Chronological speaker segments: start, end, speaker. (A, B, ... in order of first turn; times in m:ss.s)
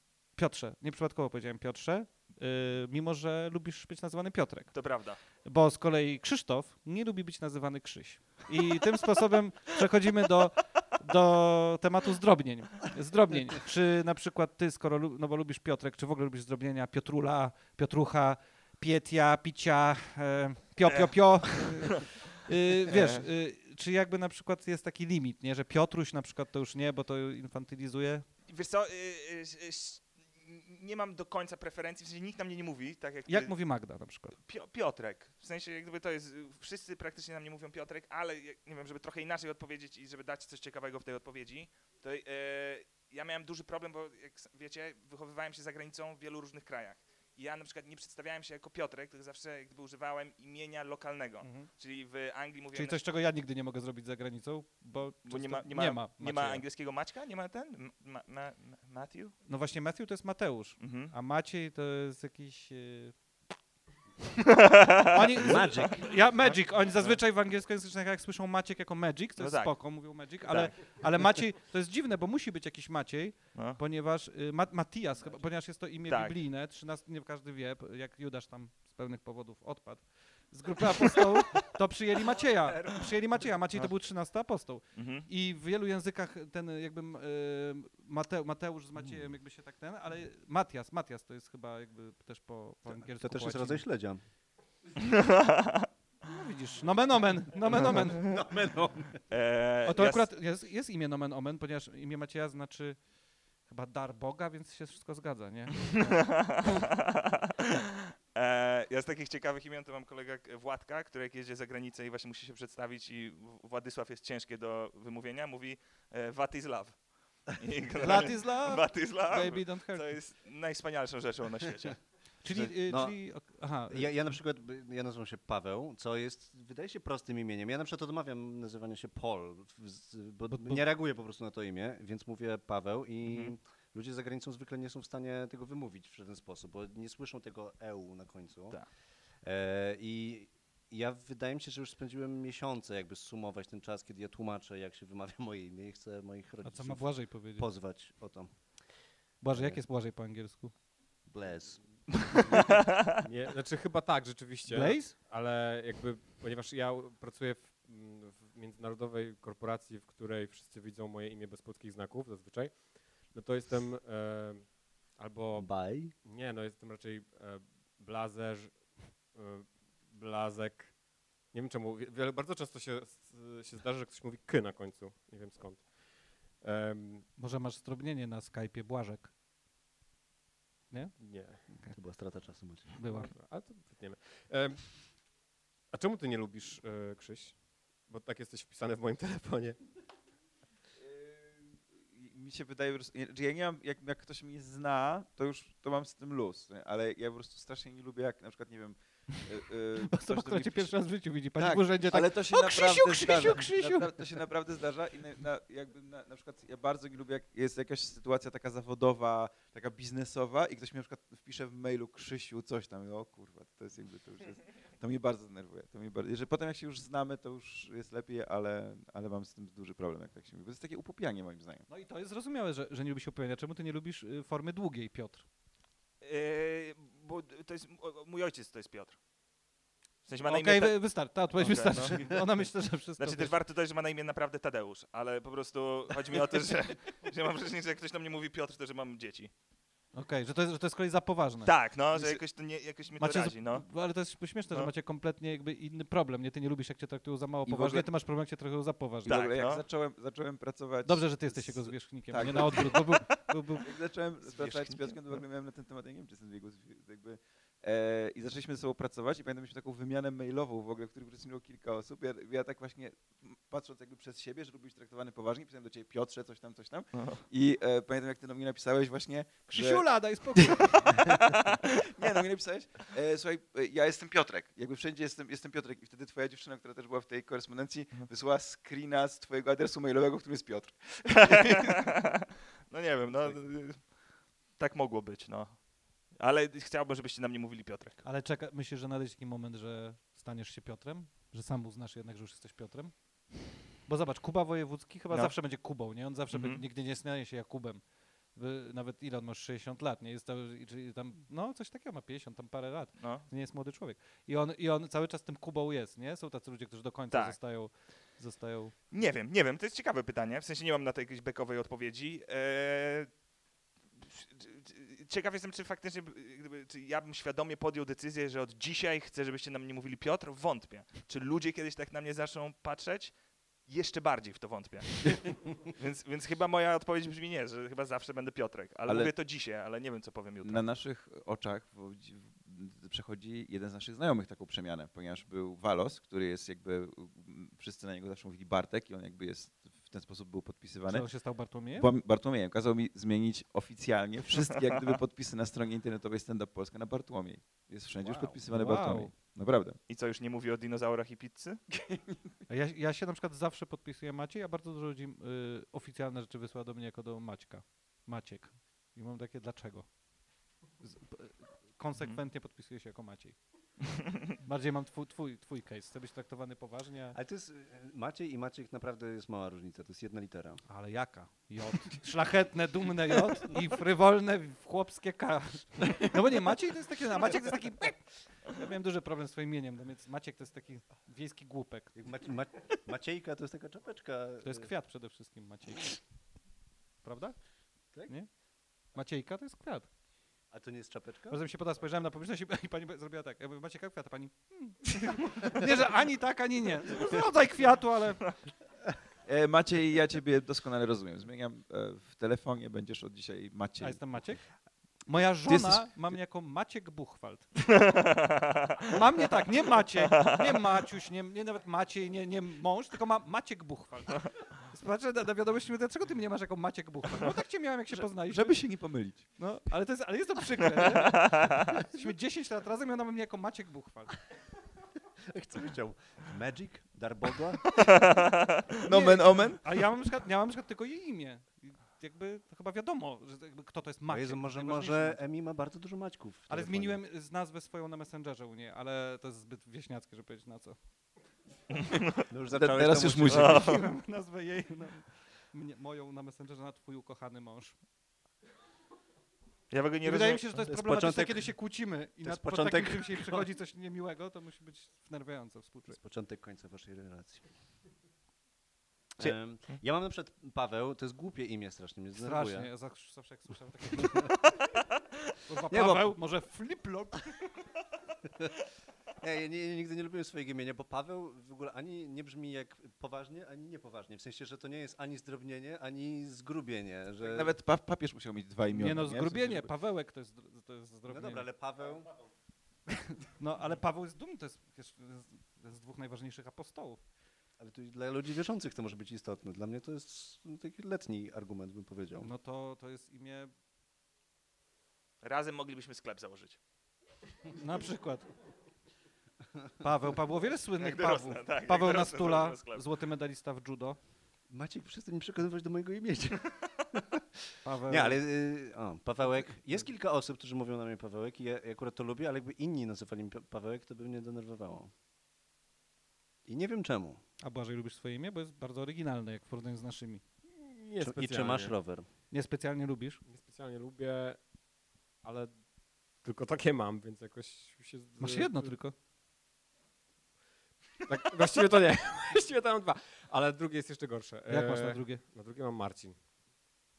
0:00.3-0:28.3 A
0:04.7-0:05.2 B
0:20.9-0:21.8 B
0:22.9-0:23.2 B
0:28.5-0:53.0 B
0:33.3-0:34.4 A
0:51.4-0:51.7 A
0:52.7-0:56.6 A
0:55.2-0:59.4 B
0:59.4-1:03.3 A
1:00.8-1:01.1 B
1:04.6-1:07.2 B
1:05.1-1:33.9 A
1:05.4-1:06.3 C
1:09.4-1:11.3 B
1:16.1-1:16.4 B
1:22.6-1:24.0 B
1:24.9-1:25.3 B
1:29.0-1:29.3 C
1:32.8-1:34.2 C
1:35.0-1:35.9 B
1:36.2-1:38.4 A
1:37.7-1:39.2 C
1:39.3-1:40.3 B
1:39.8-1:46.7 A
1:46.2-1:46.9 B
1:48.3-2:02.1 B
1:58.0-2:00.2 A
2:02.4-2:04.1 A
2:02.4-2:29.8 C
2:10.5-2:10.8 A
2:13.3-2:13.5 B
2:26.6-2:27.7 A
2:29.4-2:30.7 A
2:31.2-2:32.4 C
2:32.6-2:33.0 B
2:33.2-2:57.3 D
2:34.7-2:35.1 A
2:45.6-2:46.1 C
2:57.4-2:59.3 A
3:00.9-3:02.0 A
3:01.2-3:01.7 D
3:01.9-3:02.9 C
3:03.0-3:03.3 A
3:03.0-3:05.3 D
3:05.9-3:10.0 D
3:11.0-3:20.9 E
3:20.0-3:24.2 A
3:21.6-3:41.8 E
3:41.9-3:45.5 A
3:46.2-3:49.2 B
3:50.2-3:59.5 B
3:50.4-3:53.6 A
4:00.1-4:09.4 A
4:01.6-4:03.9 B
4:07.6-4:08.1 E
4:09.2-4:13.3 E
4:09.2-4:09.8 B
4:11.0-4:13.9 A
4:13.8-4:42.1 E
4:14.4-4:15.2 C
4:27.1-4:27.4 B
4:29.7-4:31.4 A
4:41.4-4:48.2 B
4:48.2-5:08.9 A
4:55.3-4:56.8 B
5:03.2-5:03.4 B
5:07.3-5:08.0 B
5:09.1-5:13.4 B
5:14.2-5:30.8 B
5:29.1-5:29.3 E
5:30.6-5:50.0 E
5:41.1-5:42.1 A
5:44.5-5:45.2 B
5:48.2-5:48.6 C
5:48.7-5:49.3 A
5:50.1-5:51.8 B
5:52.0-5:52.4 E
5:52.7-6:04.0 A
6:04.6-6:07.4 A
6:07.3-6:10.9 C
6:10.9-6:22.2 A
6:22.1-6:24.9 C
6:24.6-6:26.6 A
6:27.2-6:30.1 A
6:28.1-6:28.4 C
6:30.7-6:31.7 C
6:31.5-6:38.6 A
6:39.4-6:44.5 E
6:44.0-6:48.0 A
6:45.6-6:46.4 E
6:48.0-6:48.9 B
6:49.1-7:04.5 A
6:58.1-6:59.5 E
7:01.4-7:01.7 B
7:05.5-7:07.9 C
7:08.0-7:08.5 B
7:09.0-7:09.8 E
7:09.1-7:15.4 A
7:14.3-7:17.2 C
7:16.7-7:21.1 A
7:22.5-7:23.8 C
7:22.7-7:23.9 E
7:23.5-7:24.0 B
7:23.6-7:28.0 A
7:29.9-7:30.6 B
7:30.2-7:36.2 A
7:30.8-7:33.7 C
7:36.1-7:37.7 C
7:39.4-7:42.9 C
7:39.4-7:40.0 B
7:42.4-7:44.5 A
7:45.7-7:47.6 A
7:45.9-7:46.4 C
7:49.4-7:57.8 C
7:57.4-7:59.9 E
7:58.9-8:01.7 A
8:01.3-8:02.4 C
8:03.4-8:07.2 A
8:07.8-8:12.5 C
8:12.4-8:13.7 A
8:15.4-8:16.8 B
8:17.8-8:18.5 A
8:20.0-8:24.2 A
8:21.0-8:23.0 B
8:24.7-8:27.4 C
8:27.8-8:28.4 A
8:28.0-8:35.1 C
8:36.6-8:37.4 C
8:37.6-8:40.4 A
8:40.7-8:42.0 D
8:41.2-8:42.3 C
8:42.5-8:43.4 A
8:43.4-8:44.7 D
8:45.4-8:49.0 D
8:48.4-8:49.1 A
8:51.2-8:56.4 D
8:54.7-8:55.4 A